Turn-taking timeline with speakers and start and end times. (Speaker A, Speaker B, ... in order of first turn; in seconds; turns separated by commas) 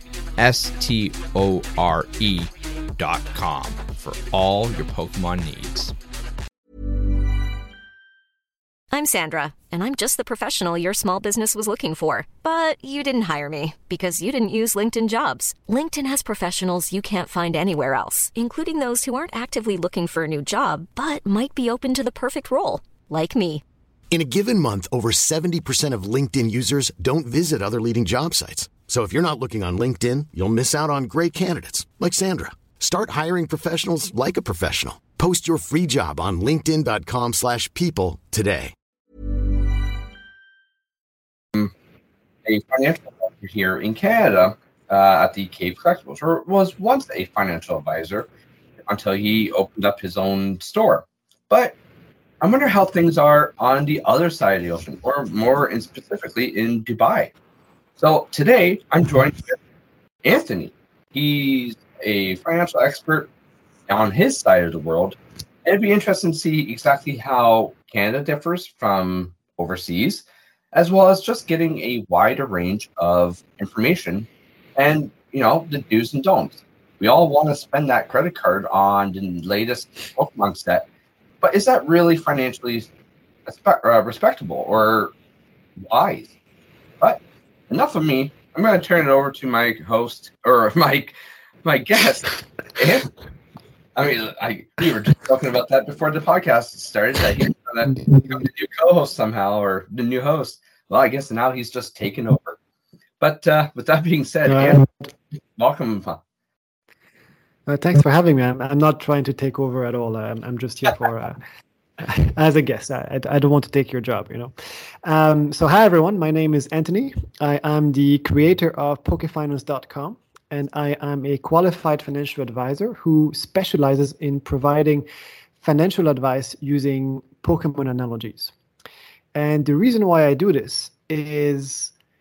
Speaker A: 0.4-5.9, Speaker B: 8.9-23.6, Speaker C: 24.1-38.7, Speaker D: 42.4-48.3, Speaker D: 48.8-51.8, Speaker D: 52.4-57.3, Speaker D: 58.0-59.6, Speaker D: 60.2-63.3, Speaker D: 63.9-80.8, Speaker D: 81.4-82.9, Speaker D: 83.5-85.1, Speaker D: 85.8-86.3, Speaker D: 87.0-93.1, Speaker D: 93.9-102.6, Speaker D: 103.2-104.8, Speaker E: 104.5-104.9, Speaker D: 105.5-106.2, Speaker E: 107.7-111.4, Speaker E: 112.0-114.5, Speaker E: 115.0-125.0, Speaker E: 125.6-128.5, Speaker E: 129.3-131.9